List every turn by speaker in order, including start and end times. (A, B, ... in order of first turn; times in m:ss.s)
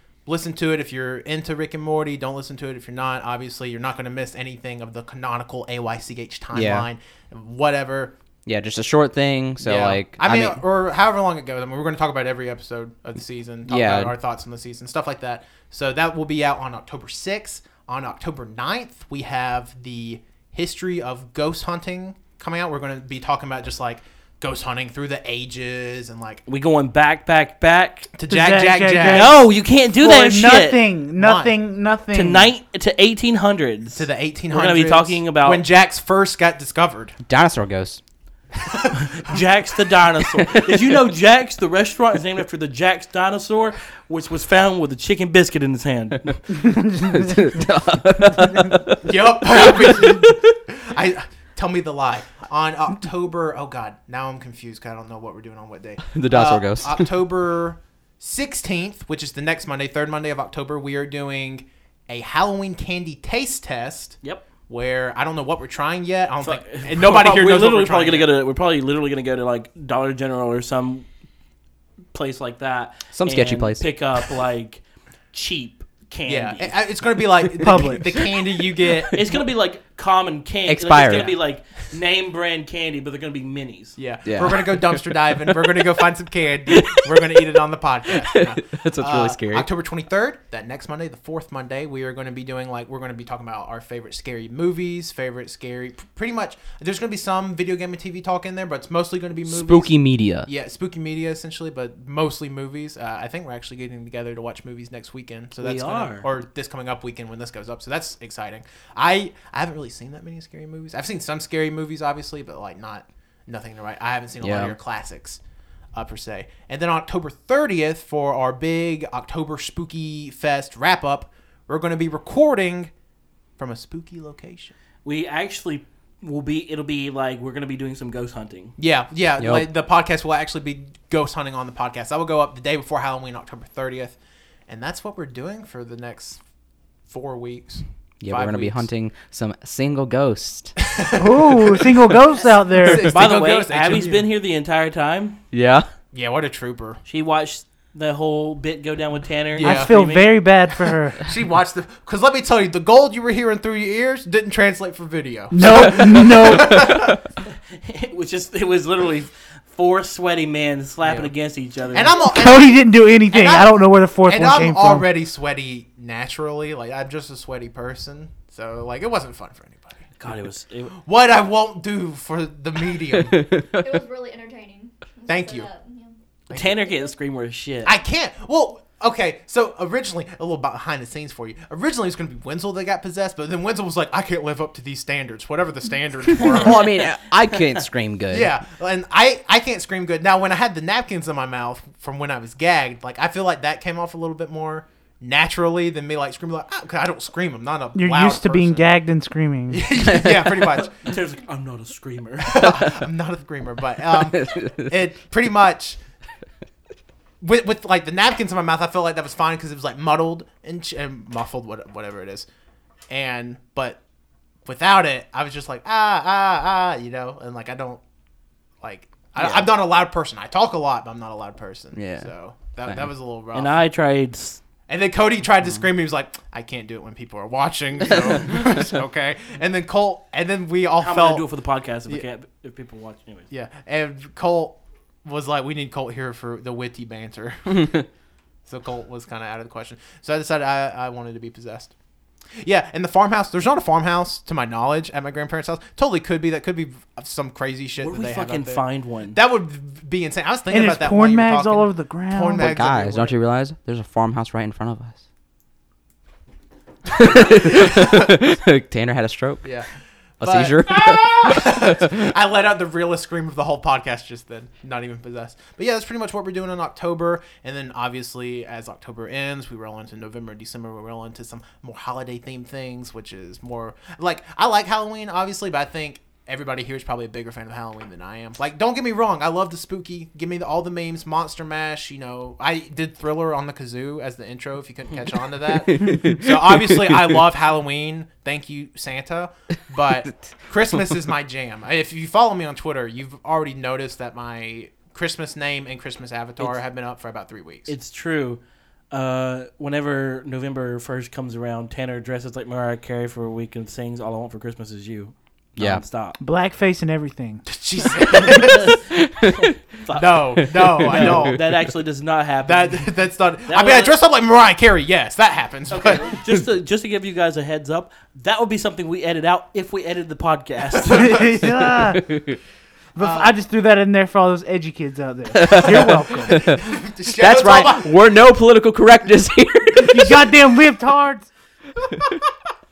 0:00.3-0:08.2 A
0:06.5-0:06.9 B
0:08.5-0:10.6 B
0:09.6-0:26.4 A
0:13.7-0:14.2 B
0:26.5-0:28.1 C
0:28.1-0:29.4 A
0:28.3-0:32.5 D
0:29.1-0:30.8 C
0:31.2-0:31.6 A
0:32.1-0:35.7 C
0:34.0-0:37.2 A
0:37.3-0:38.0 B
0:38.6-0:39.4 A
0:39.0-0:46.4 C
0:40.4-0:40.9 B
0:46.9-0:50.4 B
0:47.0-0:47.2 D
0:49.0-1:08.3 A
0:56.0-0:57.1 B
1:06.4-1:11.1 C
1:12.1-1:16.8 C
1:13.1-1:13.9 B
1:16.3-1:19.4 A
1:17.6-1:18.2 D
1:18.9-1:19.2 B
1:19.1-1:24.0 C
1:20.7-1:21.4 B
1:24.0-1:55.4 A
1:24.2-1:25.8 B
1:26.7-1:27.5 B
1:28.1-1:29.7 B
1:39.5-1:40.5 B
1:45.6-1:46.3 C
1:54.4-1:54.8 B
1:55.9-2:02.9 A
2:03.6-2:04.7 A
2:05.0-2:08.8 C
2:08.8-2:14.2 A
2:09.4-2:09.7 B
2:14.7-2:16.4 A
2:17.1-2:18.9 A
2:18.2-2:20.8 B
2:20.8-2:22.1 A
2:21.2-2:23.1 D
2:22.8-2:24.3 A
2:23.0-2:25.4 C
2:25.5-2:25.9 B
2:26.1-2:27.0 A
2:27.0-2:30.4 C
2:29.5-2:30.0 A
2:29.6-2:31.2 D
2:31.2-2:37.2 A
2:35.5-2:37.1 D
2:36.7-2:37.2 B
2:37.7-2:42.2 C
2:41.9-2:50.1 A
2:42.2-2:45.1 D
2:50.2-2:50.9 C
2:50.9-2:53.5 A
2:53.3-2:54.0 B
2:53.6-2:56.2 E
2:55.3-2:55.7 A
2:56.5-2:56.8 A
2:56.5-2:57.9 C
2:57.8-3:07.0 A
3:06.4-3:08.5 B
3:08.3-3:18.9 A
3:18.0-3:19.9 D
3:19.7-3:21.2 A
3:20.1-3:20.5 B
3:20.8-3:22.8 C
3:22.4-3:26.0 A
3:24.0-3:24.9 B
3:27.4-3:32.5 A
3:33.1-3:34.0 A
3:34.6-3:38.0 A
3:38.8-3:43.8 A
3:39.4-3:39.7 B
3:42.0-3:42.3 B
3:43.5-3:44.6 C
3:44.9-3:51.5 A
3:51.0-3:53.5 C
3:53.5-3:58.1 A
3:58.7-4:01.9 A
4:02.6-4:13.4 A
4:08.0-4:09.4 C
4:10.7-4:12.7 D
4:12.6-4:15.2 B
4:17.1-4:19.7 B
4:17.3-4:18.2 A
4:19.6-4:57.9 A
4:20.4-4:22.2 B
4:45.9-4:47.4 B
4:57.9-5:06.4 C
5:05.8-5:06.0 B
5:06.4-5:07.6 D
5:07.7-5:09.0 A
5:08.3-5:14.2 C
5:09.2-5:09.7 B
5:10.1-5:11.6 A
5:10.8-5:11.4 B
5:12.6-5:16.3 A
5:15.9-5:21.6 C
5:21.1-5:22.3 D
5:22.0-5:22.6 B
5:23.2-5:26.7 D
5:23.2-5:23.5 A
5:25.5-5:30.5 B
5:25.8-5:28.2 A
5:30.0-5:31.5 D